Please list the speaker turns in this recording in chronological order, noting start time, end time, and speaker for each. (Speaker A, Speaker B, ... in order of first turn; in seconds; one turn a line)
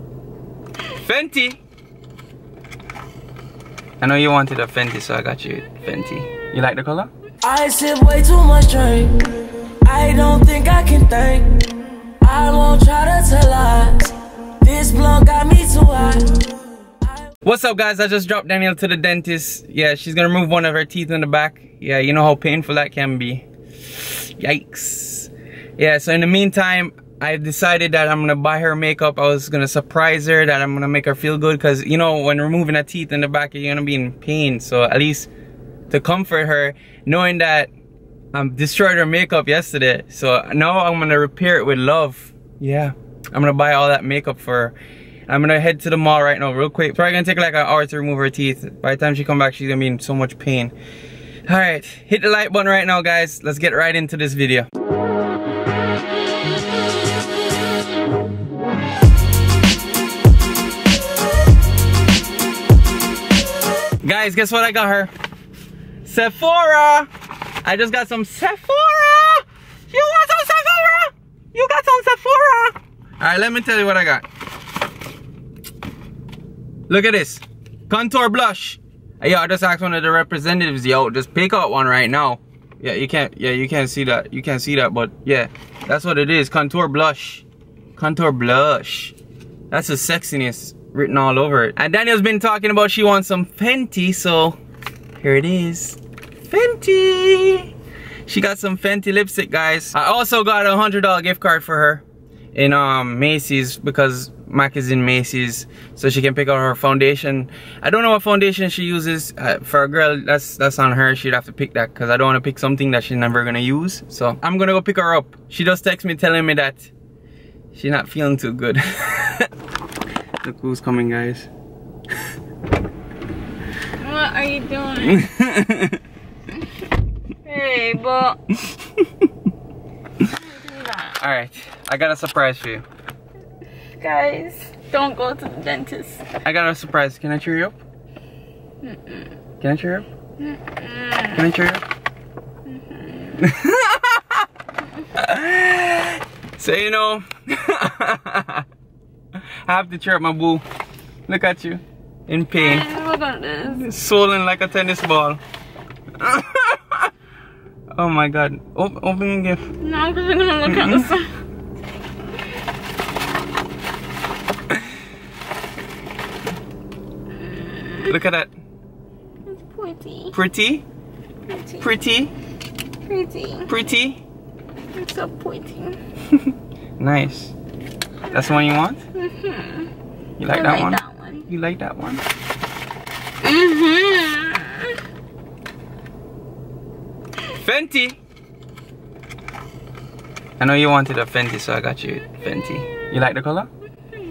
Speaker A: 0.9-1.6
Speaker A: 4.0-7.1
Speaker B: 7.4-9.2
Speaker B: 9.8-11.6
Speaker B: 12.2-14.1
Speaker B: 14.6-16.4
Speaker A: 17.4-35.3
Speaker A: 35.9-37.7
Speaker A: 38.3-44.8
Speaker A: 45.3-50.7
Speaker A: 51.5-54.7
Speaker A: 64.0-65.1
Speaker A: 66.0-67.1
Speaker A: 67.6-74.3
Speaker A: 76.9-87.5
Speaker A: 88.0-89.2
Speaker A: 89.7-94.6
Speaker A: 95.2-97.7
Speaker A: 98.3-102.0
Speaker A: 102.5-116.9
Speaker A: 117.7-119.5
Speaker A: 120.4-121.5
Speaker C: 124.0-125.3
Speaker A: 125.1-126.0
Speaker C: 127.5-128.4
Speaker C: 130.4-131.2
Speaker A: 131.2-132.8
Speaker C: 134.0-136.2
Speaker A: 136.4-137.8
Speaker C: 138.8-139.3
Speaker A: 139.6-140.1
Speaker C: 140.4-141.4
Speaker A: 141.3-141.8
Speaker C: 142.7-143.4
Speaker A: 143.4-144.4
Speaker A: 145.2-148.6
Speaker A: 149.4-150.6
Speaker A: 151.3-152.9
Speaker C: 152.5-153.8
Speaker A: 153.6-155.4
Speaker A: 156.2-157.1
Speaker A: 157.9-159.7
Speaker C: 159.8-161.3
Speaker A: 160.7-161.1
Speaker C: 167.4-168.1
Speaker A: 168.1-168.5
Speaker C: 169.5-170.3
Speaker A: 170.3-170.8
Speaker C: 171.5-171.9
Speaker A: 171.8-172.3
Speaker C: 173.1-173.7
Speaker A: 173.7-174.2
Speaker C: 174.9-176.0
Speaker A: 176.3-177.5
Speaker A: 178.3-179.0
Speaker C: 179.2-179.9
Speaker A: 180.4-182.2
Speaker C: 180.5-181.5
Speaker C: 183.4-184.9
Speaker A: 187.5-188.2
Speaker A: 190.6-193.7